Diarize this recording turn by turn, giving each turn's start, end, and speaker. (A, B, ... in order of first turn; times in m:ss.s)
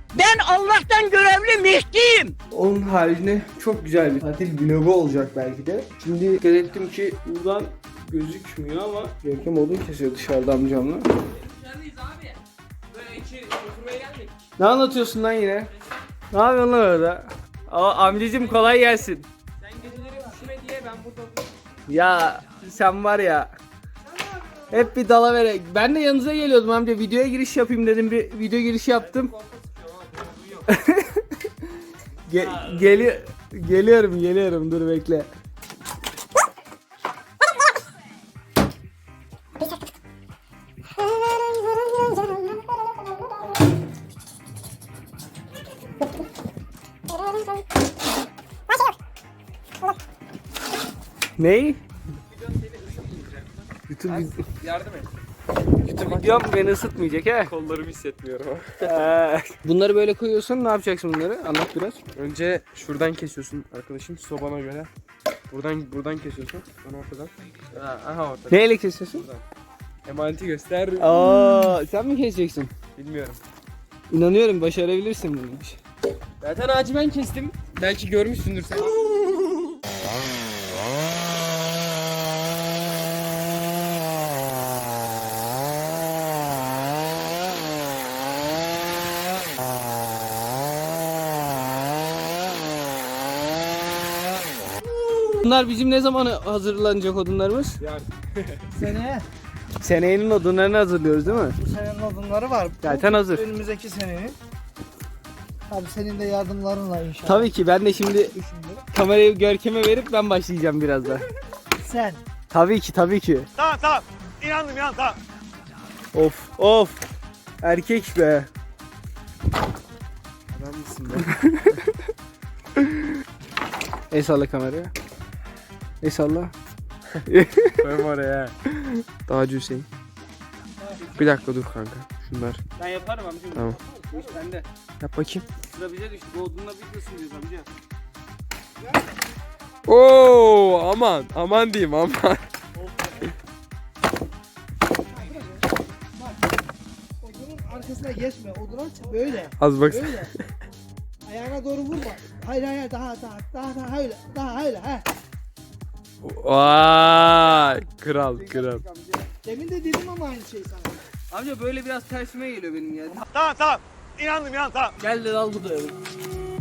0:00.1-0:02.3 A
0:02.5-0:11.1 B
0:13.4-0:13.7 B
0:13.7-0:14.1 C
0:14.6-0:15.7 B
0:16.3-0:20.8 B
0:21.9-0:23.5 B
0:24.7-0:29.3 B
0:30.6-0:31.3 B
0:32.2-0:35.3 B
0:51.4-0:51.8 B
0:53.9-0:54.4 B
0:54.1-0:55.1 C
0:55.8-0:56.5 C
0:55.9-0:57.5 B
0:57.5-0:58.8 C
0:58.8-1:02.0 B
1:02.1-1:04.9 C
1:05.5-1:09.4 C
1:08.5-1:09.3 B
1:10.0-1:11.1 C
1:11.0-1:12.7 B
1:13.0-1:13.4 C
1:14.1-1:15.8 B
1:16.4-1:18.9 C
1:35.2-1:37.8 B
1:38.9-1:39.2 D
1:39.8-1:41.6 B
1:41.6-1:44.4 D
1:42.8-1:43.4 B
1:45.7-1:47.4 D
1:47.2-1:51.2 B
1:51.9-1:52.2 D
1:52.5-1:53.5 B
1:53.6-1:55.2 E
1:56.1-1:57.0 B
1:57.6-1:58.5 B
2:00.5-2:01.3 C
2:01.2-2:01.7 B
2:04.1-2:04.9 B
2:06.0-2:06.5 B
2:07.2-2:07.8 B
2:07.8-2:08.5 C
2:09.2-2:09.9 C
2:10.9-2:11.2 B
2:11.1-2:12.6 C
2:12.8-2:14.6 B
2:15.0-2:15.4 C
2:15.7-2:17.7 B
2:19.8-2:22.4 C
2:22.8-2:23.2 B
2:27.3-2:29.5 D
2:29.6-2:30.4 C
2:31.3-2:35.0 D
2:36.2-2:38.8 C
2:38.4-2:39.3 B
2:39.5-2:40.9 D
2:41.3-2:43.2 B
2:43.3-2:44.9 E
2:45.0-2:46.0 B